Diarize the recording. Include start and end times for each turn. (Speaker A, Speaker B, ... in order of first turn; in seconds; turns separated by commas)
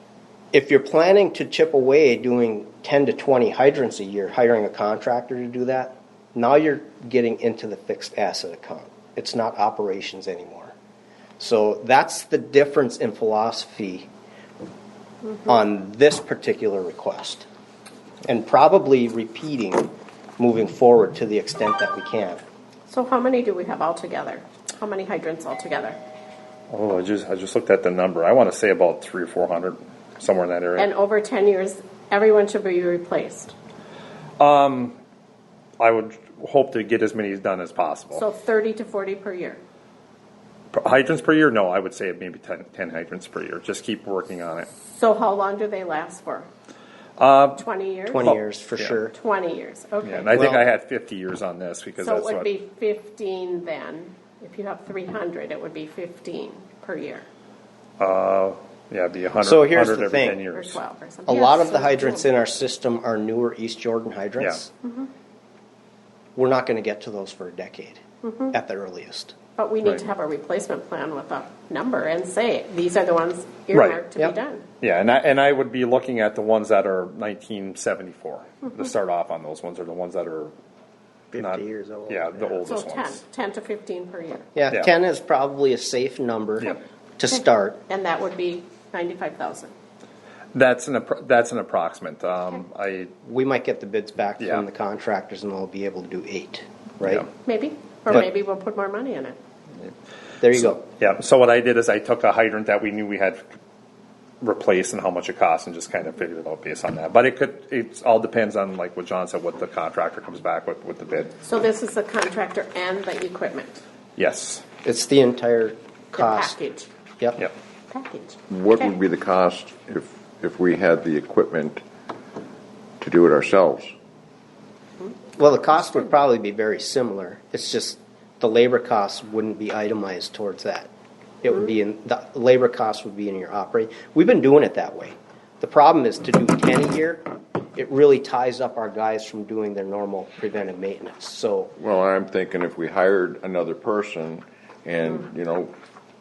Speaker A: 0.5-10.7, Speaker A: 11.4-14.1, Speaker A: 15.5-17.5, Speaker A: 18.3-22.4, Speaker B: 22.9-26.0, Speaker C: 26.7-30.9, Speaker B: 30.8-33.5, Speaker C: 34.4-35.0, Speaker C: 35.8-38.2, Speaker B: 38.2-39.6, Speaker C: 40.7-44.7, Speaker B: 44.9-46.5, Speaker C: 47.2-47.6, Speaker B: 47.6-48.4, Speaker A: 48.1-49.1, Speaker C: 48.2-49.0, Speaker B: 49.1-50.4, Speaker C: 50.0-52.5, Speaker A: 50.3-50.6, Speaker B: 52.0-57.2, Speaker C: 58.0-60.8, Speaker A: 59.4-60.5, Speaker B: 60.5-62.3, Speaker A: 61.3-64.7, Speaker B: 64.8-65.1, Speaker A: 66.4-68.0, Speaker B: 68.2-68.5, Speaker A: 68.5-69.3, Speaker B: 69.6-74.7, Speaker C: 73.7-74.0, Speaker C: 74.8-80.5, Speaker C: 81.3-83.2, Speaker B: 82.7-84.5, Speaker A: 84.5-87.8, Speaker B: 87.3-89.7, Speaker C: 90.5-93.1, Speaker A: 93.2-97.3, Speaker C: 94.4-94.6, Speaker B: 97.5-99.4, Speaker A: 100.4-100.8, Speaker C: 100.5-103.6, Speaker C: 104.4-111.3, Speaker B: 111.4-113.8, Speaker C: 114.2-114.6, Speaker A: 114.8-116.6, Speaker B: 116.1-116.9, Speaker B: 117.9-118.9, Speaker D: 118.5-121.8, Speaker D: 123.0-123.9, Speaker A: 125.4-130.9, Speaker A: 131.4-141.7, Speaker D: 141.8-145.7